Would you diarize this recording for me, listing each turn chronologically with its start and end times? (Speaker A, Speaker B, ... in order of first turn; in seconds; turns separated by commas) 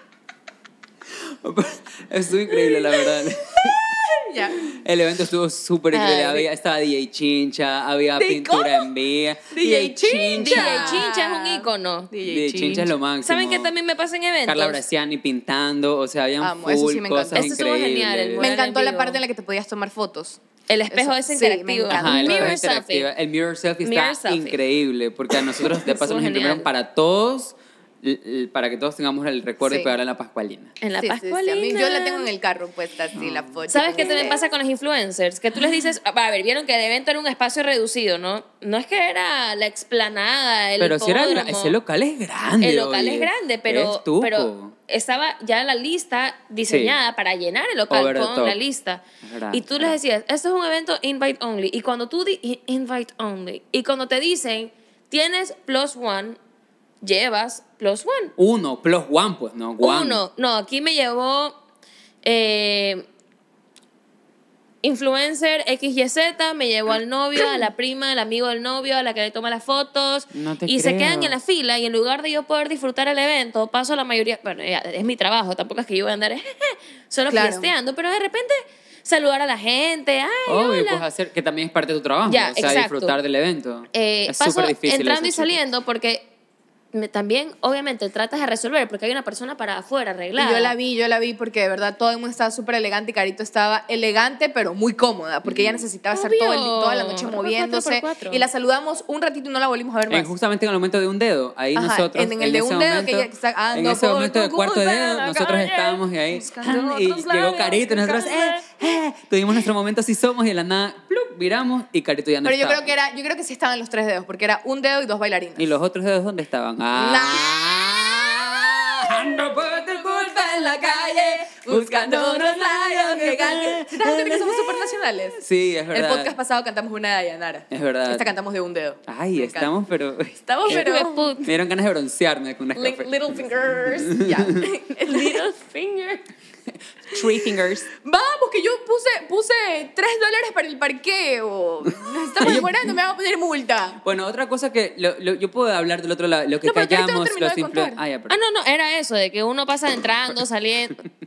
Speaker A: 1.1-4.0, Speaker B: 2.6-4.7, Speaker A: 4.6-11.1, Speaker C: 5.9-6.5, Speaker B: 8.2-8.9, Speaker B: 9.5-12.9, Speaker C: 10.4-12.1, Speaker A: 12.2-13.7, Speaker C: 13.2-14.8, Speaker A: 14.4-18.5, Speaker B: 16.4-17.5, Speaker C: 17.3-19.2, Speaker B: 18.4-20.4, Speaker C: 20.7-23.1, Speaker B: 20.9-22.6, Speaker A: 21.9-30.7, Speaker C: 23.8-24.6, Speaker C: 25.7-26.7, Speaker B: 29.6-29.9, Speaker C: 30.8-32.3, Speaker B: 31.0-34.4, Speaker A: 33.1-33.6, Speaker C: 33.7-41.8, Speaker A: 40.8-44.7, Speaker C: 42.6-56.4, Speaker A: 46.7-47.0, Speaker A: 47.9-48.6, Speaker A: 49.2-50.0, Speaker C: 57.0-58.3, Speaker A: 58.4-60.2, Speaker C: 59.8-61.5, Speaker C: 62.2-63.0, Speaker C: 64.8-81.0, Speaker A: 70.3-71.3, Speaker B: 77.3-77.7, Speaker A: 80.5-85.6, Speaker C: 82.2-83.2, Speaker C: 83.9-86.2, Speaker C: 86.9-90.7, Speaker B: 90.4-100.3, Speaker A: 95.5-95.8, Speaker C: 96.1-98.5, Speaker A: 100.1-112.9, Speaker B: 101.8-108.7, Speaker C: 105.5-105.9, Speaker B: 112.4-115.7, Speaker A: 115.6-126.3, Speaker B: 117.0-125.4, Speaker B: 125.9-129.7, Speaker A: 127.7-128.3, Speaker A: 129.1-130.9, Speaker B: 130.4-131.3, Speaker C: 130.7-131.5, Speaker A: 131.4-133.4, Speaker B: 132.8-135.4, Speaker A: 134.0-134.7, Speaker C: 135.0-136.2, Speaker A: 137.0-137.8, Speaker B: 137.1-144.0, Speaker A: 142.4-142.9, Speaker A: 144.0-148.4, Speaker B: 146.6-148.0, Speaker C: 148.3-151.0